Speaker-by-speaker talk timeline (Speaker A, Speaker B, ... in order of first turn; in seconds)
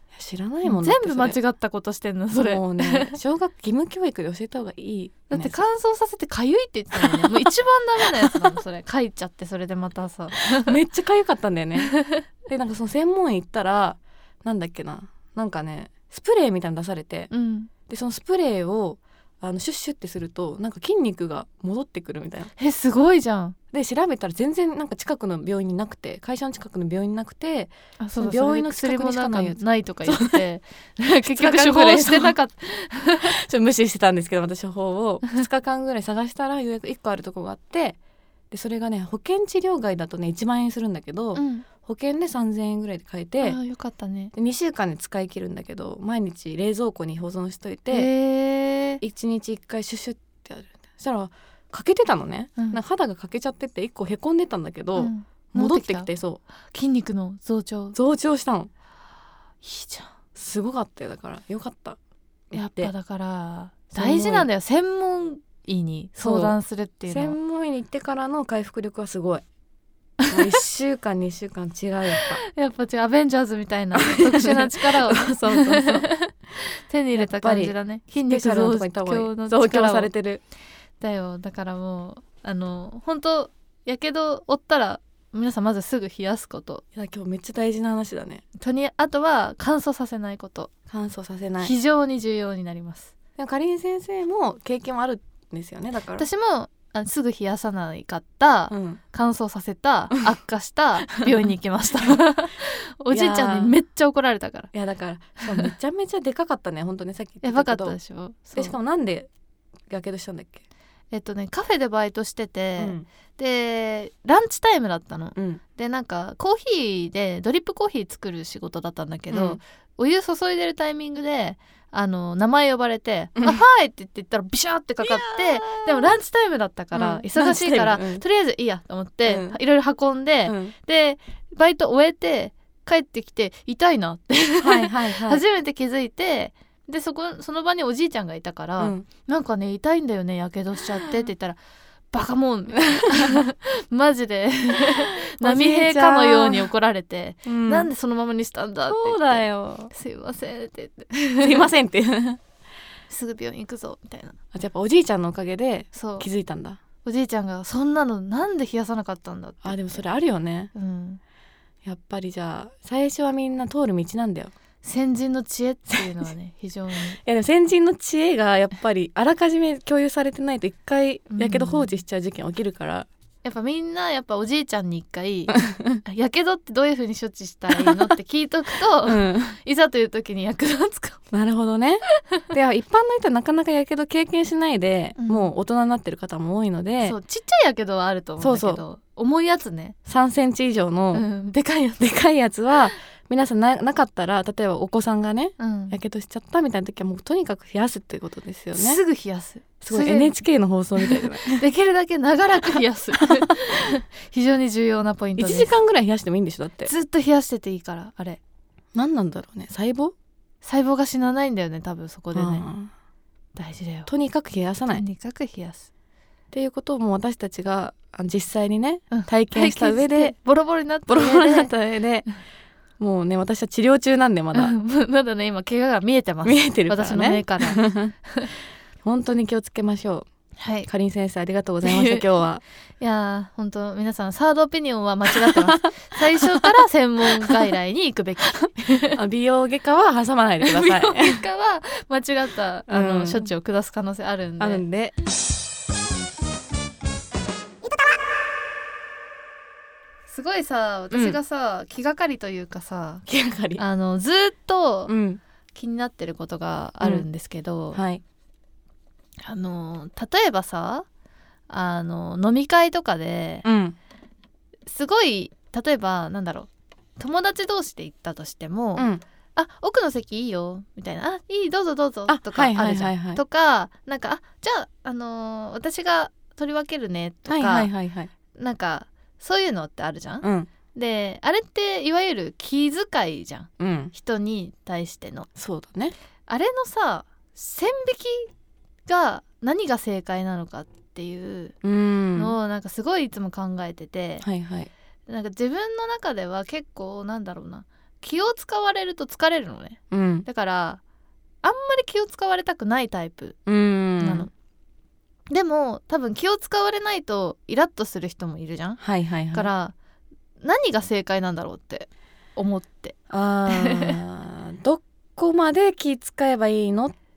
Speaker A: 0.1-1.4, 2.4-5.6, 7.0-7.5, 8.0-8.4, 10.5-11.9, 12.5-17.3, 17.9-22.5, 23.7-30.4, 31.1-32.4, 33.2-38.0, 38.5-43.6, 44.3-48.1, 49.0-56.4, 58.0-58.7, 60.4-62.0, 62.5-62.9, 63.9-64.5, 66.2-69.4, 70.3-72.4, 74.0-76.1, 77.2-80.4, 87.0-88.4, 90.9-91.7, 93.4-96.3, 98.7-99.0, 103.1-103.7, 104.7-108.0, 108.5-109.3, 109.9-110.6, 112.8-113.1, 115.3-115.6, 119.3-119.6, 123.4-123.6, 125.0-126.2, 126.9-128.2, 129.3-129.6, 130.5-130.7, 134.6-135.4, 138.8-139.1, 143.0-143.4, 144.8-146.7, 147.5-147.9, 148.9-149.9, 151.4-152.4, 154.5-156.8, 159.6-160.7, 161.8-164.5, 167.2-173.1, 175.5-176.0, 177.7-178.1, 179.1-179.6, 181.3-187.2, 188.4-188.8, 190.1-191.3, 192.0-199.0, 199.8-201.6, 205.4-206.9, 208.9-210.2, 212.3-212.9, 214.1-215.0, 216.5-220.4, 221.1-222.3, 223.0-224.8, 226.4-228.1, 229.0-230.3, 230.9-232.6, 235.4-235.9, 239.1-241.4, 242.9-243.5, 244.6-245.2, 251.1-251.4, 253.3-253.8, 255.1-255.4, 257.0-257.3, 257.9-258.2, 263.6-264.0, 269.0-269.2, 272.3-273.4, 277.5-278.3, 280.4-280.7, 283.8-284.1, 285.6-286.1, 291.8-292.6, 294.4-294.9, 300.1-300.5, 303.7-304.5, 309.0-309.7, 313.3-317.2
Speaker B: 0.6-3.2, 5.3-10.8, 11.8-12.2, 17.3-17.7, 22.6-23.6, 28.0-33.4, 41.4-41.7, 43.4-44.3, 47.9-49.0, 55.0-56.1, 56.7-58.0, 59.6-60.1, 62.5-67.4, 70.2-70.5, 72.2-80.1, 81.0-86.8, 88.6-90.7, 91.6-93.1, 96.2-104.7, 107.4-108.8, 111.1-141.6, 142.1-151.7, 153.1-154.4, 155.9-156.3, 157.0-160.0, 160.8-161.2, 164.8-167.2, 171.3-171.9, 173.4-181.2, 185.2-185.5, 187.0-190.0, 191.1-192.2, 195.6-196.0, 198.8-200.4, 201.0-205.7, 206.8-208.4, 210.6-212.7, 213.6-214.1, 214.9-215.9, 219.1-221.7, 224.5-228.5, 230.6-230.9, 231.8-232.3, 233.0-239.2, 240.6-244.8, 250.3-253.3, 253.8-255.1, 255.8-258.0, 259.4-261.1, 261.7-263.7, 264.9-277.9, 278.6-285.5, 286.5-288.5, 289.1-291.8, 292.4-294.4, 295.3-301.0, 301.6-303.6, 304.2-304.5, 305.5-309.0, 309.5-309.9, 310.6-313.2, 313.7-314.2